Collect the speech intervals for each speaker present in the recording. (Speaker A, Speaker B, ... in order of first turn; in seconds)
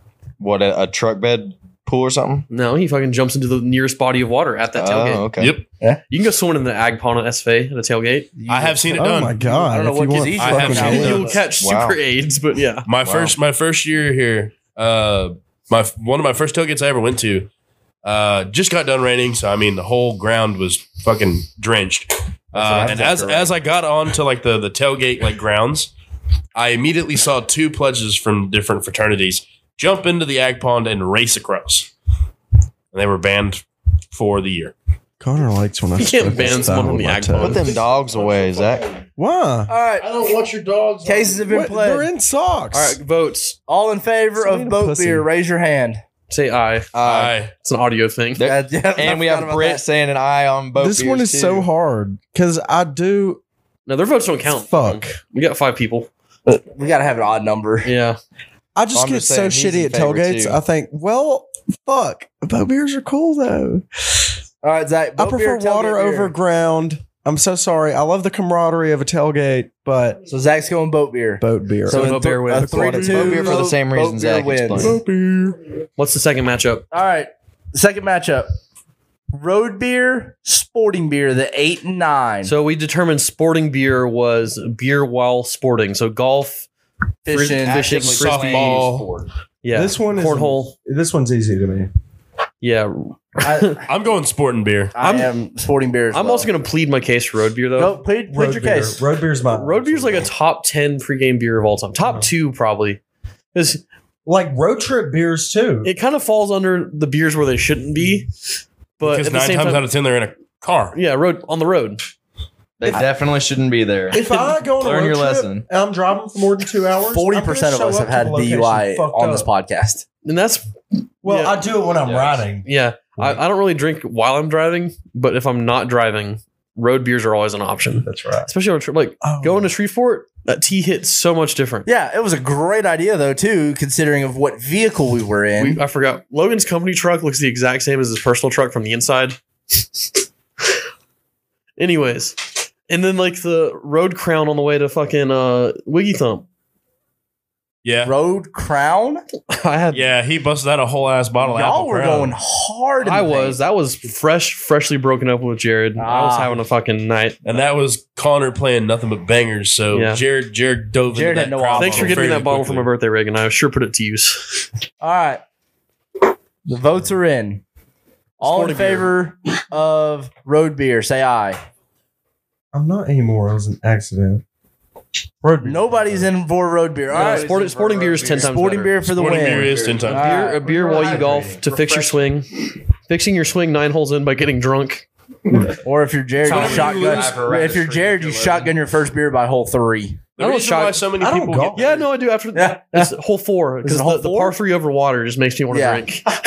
Speaker A: 0.4-2.5, 4.8-5.6, 11.6-12.0, 13.1-13.3, 22.8-23.1, 37.4-39.0, 46.9-47.4, 48.4-51.7, 58.9-60.6, 72.6-75.0, 87.7-89.3, 112.8-114.2, 114.8-115.7, 122.0-122.4, 177.1-178.8, 179.4-182.1, 186.4-188.7
Speaker B: 2.5-5.2, 6.1-8.3, 10.7-12.9, 36.0-37.7, 42.7-43.6, 46.3-46.9, 47.5-48.5, 53.9-56.1, 57.8-58.2, 71.9-73.3, 76.0-76.8, 82.4-86.7, 87.3-88.8, 89.6-90.8, 92.6-93.8, 95.0-95.3, 96.1-98.0, 99.5-103.0, 103.5-103.8, 105.8-108.3, 109.0-109.8, 110.9-112.0, 120.2-120.7, 121.2-121.6, 122.6-131.9, 135.6-139.4, 141.8-146.4, 149.5-150.1, 153.0-157.4, 159.9-160.2, 161.8-164.7, 168.4-169.1, 177.1-179.0, 180.1-185.1, 190.4-191.0, 191.7-196.3
Speaker C: 5.4-5.6, 8.5-9.4, 10.4-11.3, 12.9-17.5, 18.0-25.9, 26.6-31.9, 32.9-34.7, 37.6-38.9, 40.0-41.5, 47.0-47.5, 74.8-75.5, 88.0-89.1, 93.9-94.9, 109.0-111.0, 147.8-148.1, 149.9-152.3, 157.4-162.9, 179.1-180.3, 186.4-187.4, 190.4-192.1
Speaker D: 8.4-11.5, 22.6-23.5, 39.7-40.1, 41.0-42.1, 43.7-46.0, 48.4-49.8, 56.5-57.9, 64.6-66.3, 70.3-75.0, 76.9-78.5, 79.3-82.5, 87.3-88.1, 93.4-93.8, 95.0-96.5, 97.8-99.0, 117.1-120.0, 131.9-135.8, 148.1-149.2, 151.4-153.6, 156.0-156.6, 161.1-162.3, 165.0-165.4, 166.7-167.6, 168.4-171.6, 175.4-177.5, 178.4-181.3, 185.8-190.2, 192.6-193.1, 193.8-194.6, 195.7-196.0
Speaker E: 8.9-11.3, 35.2-37.6, 39.2-39.7, 41.5-43.0, 44.4-45.3, 50.8-53.4, 54.5-55.2, 58.8-64.3, 65.2-70.2, 71.4-72.2, 89.7-91.9, 98.3-100.3, 102.0-102.3, 104.3-105.9, 114.1-119.5, 121.2-122.7, 128.0-128.5, 129.2-129.7, 172.7-174.4, 175.6-176.3, 191.2-191.8